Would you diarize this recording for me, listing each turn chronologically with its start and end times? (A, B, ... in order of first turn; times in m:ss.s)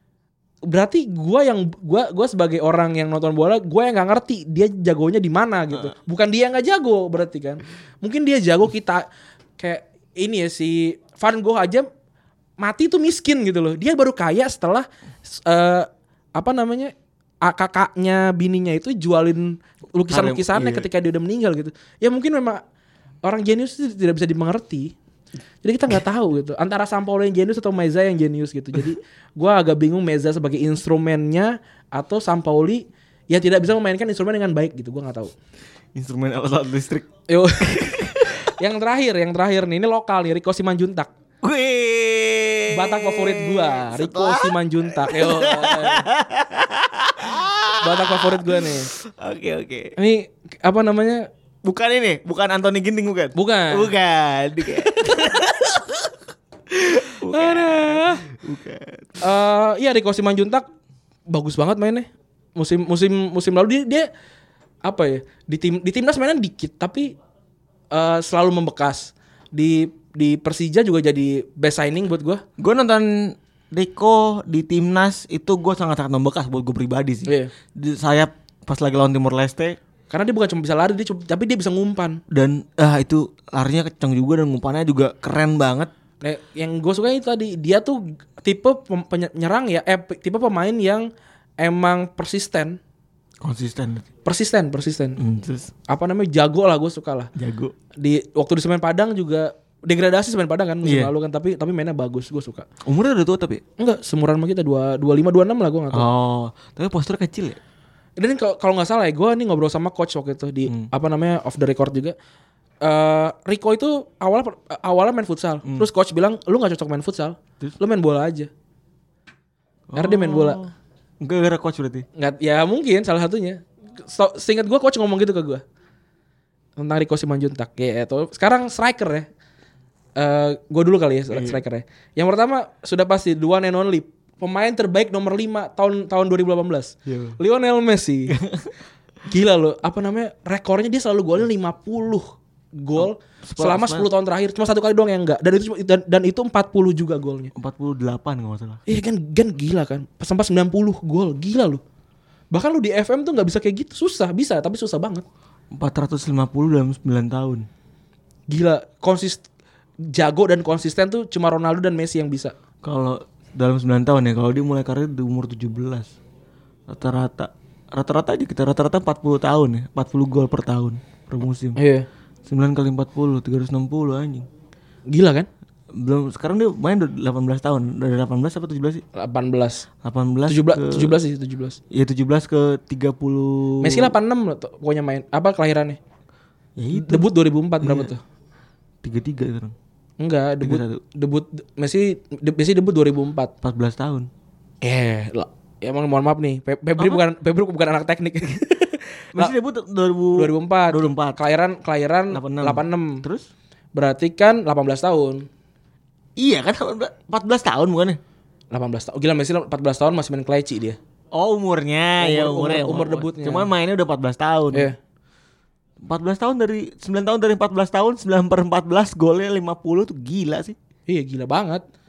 0:00.7-0:09.1 A
0:09.6-0:11.9 A
0:12.6-0:22.6 A
0:20.1-0:20.9 B
0:23.2-0:24.9 A
0:25.6-0:35.3 A
0:36.0-0:37.1 B
0:37.3-0:41.1 A
0:37.6-0:38.4 B
0:41.4-0:50.0 B
0:42.7-0:46.1 A
0:47.8-0:48.9 A
0:50.0-0:51.3 A
0:51.6-0:56.2 B
0:53.4-0:53.9 A
0:56.7-0:59.2 B
0:57.3-0:58.2 A
0:59.2-1:00.7 A
1:01.3-1:04.1 A
1:04.8-1:07.2 A
1:07.9-1:12.4 A
1:12.6-1:19.8 B
1:20.1-1:22.2 A
1:22.3-1:25.9 B
1:26.2-1:31.1 A
1:31.6-1:32.8 A
1:33.4-1:34.0 B
1:34.2-1:35.2 A
1:35.2-1:35.7 B
1:35.9-1:37.3 A
1:37.4-1:37.7 B
1:38.0-1:42.7 A
1:40.8-1:41.1 B
1:42.9-1:43.6 B
1:43.8-1:46.1 A
1:45.9-1:47.6 B
1:48.2-1:52.2 A
1:52.8-1:58.5 A
1:59.9-2:02.1 B
1:59.9-2:00.6 A
2:02.2-2:05.6 A
2:06.8-2:09.3 A
2:10.2-2:18.4 A
2:11.3-2:11.6 B
2:17.1-2:17.4 B
2:18.3-2:18.7 B
2:19.3-2:27.5 A
2:23.0-2:24.1 B
2:27.6-2:28.8 B
2:28.9-2:31.8 A
2:32.5-2:35.2 A
2:35.7-2:37.7 B
2:38.5-2:39.4 A
2:40.1-2:42.5 A
2:42.8-2:46.1 B
2:46.9-2:51.8 B
2:51.8-2:52.1 A
2:52.5-2:54.5 B
2:55.1-2:55.5 A
2:55.9-2:59.0 B
2:59.2-2:59.9 A
3:00.0-3:01.2 B
3:00.5-3:01.8 A
3:01.9-3:04.2 B
3:03.8-3:06.0 A
3:06.8-3:07.3 B
3:06.9-3:08.2 A
3:07.8-3:08.1 B
3:09.0-3:09.8 B
3:10.2-3:13.5 A
3:10.6-3:11.0 B
3:13.6-3:14.3 B
3:14.8-3:19.5 A
3:17.0-3:17.2 B
3:19.4-3:21.4 B
3:20.4-3:23.2 A
3:22.3-3:23.5 B
3:24.0-3:25.5 A
3:26.4-3:28.2 B
3:28.7-3:31.0 A
3:31.3-3:34.9 B
3:32.2-3:33.7 A
3:36.0-3:40.8 B
3:41.1-3:41.8 A